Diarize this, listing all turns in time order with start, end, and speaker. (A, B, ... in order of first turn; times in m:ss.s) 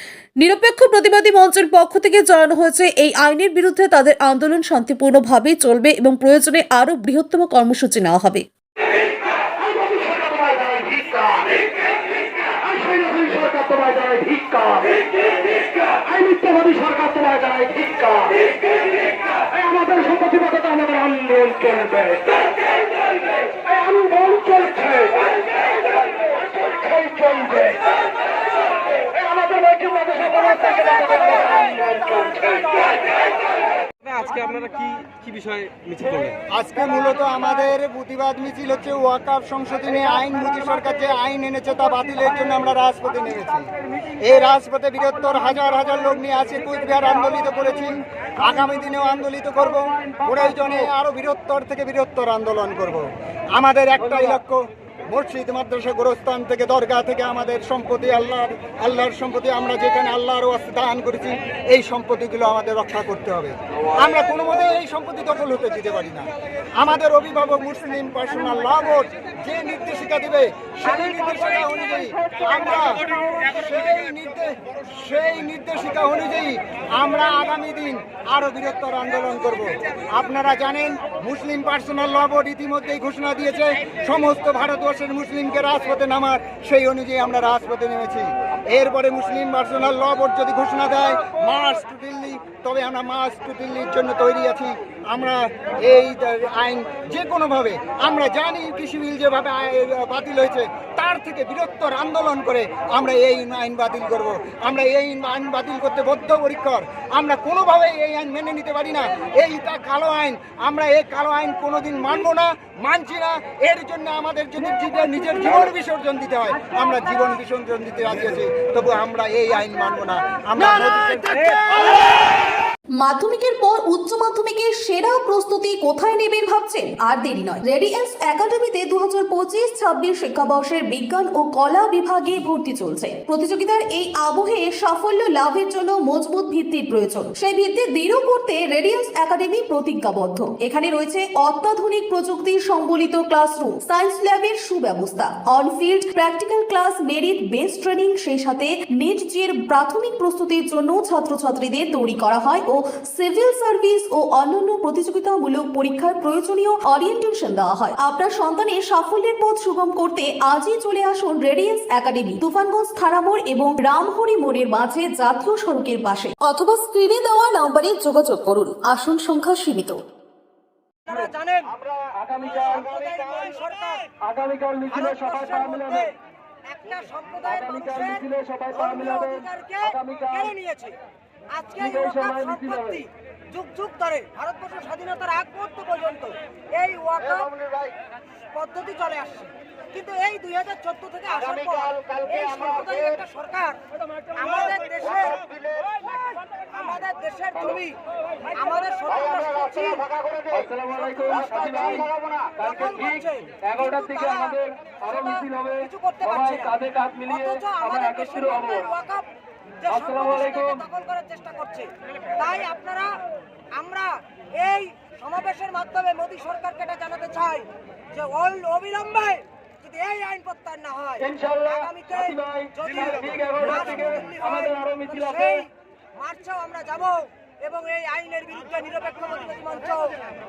0:00.4-0:08.4 A
0:09.7-0:11.5 B
0:12.7-0:14.9 B
0:16.0-0:18.4 B
0:19.6-0:22.2 B
0:23.9-0:25.2 B
0:26.7-0:27.8 B
0:29.1-0:32.8 B
0:34.0-0:36.4 C
0:36.5-2:02.0 D
2:03.0-2:50.0 A
2:51.0-2:51.8 E
2:52.0-2:52.5 B
2:52.4-2:54.1 E
2:54.2-2:55.0 B
2:54.9-2:56.1 E
2:56.6-3:01.0 E
2:58.2-2:58.8 B
3:00.0-3:00.3 B
3:01.5-3:07.6 E
3:08.5-3:13.8 E
3:14.3-3:29.2 E
3:20.6-3:21.1 B
3:21.6-3:22.0 B
3:24.9-3:25.4 B
3:26.8-3:27.3 B
3:29.8-3:33.2 E
3:33.7-3:50.2 E
3:41.3-3:41.7 B
3:42.4-3:42.7 B
3:43.3-3:45.1 B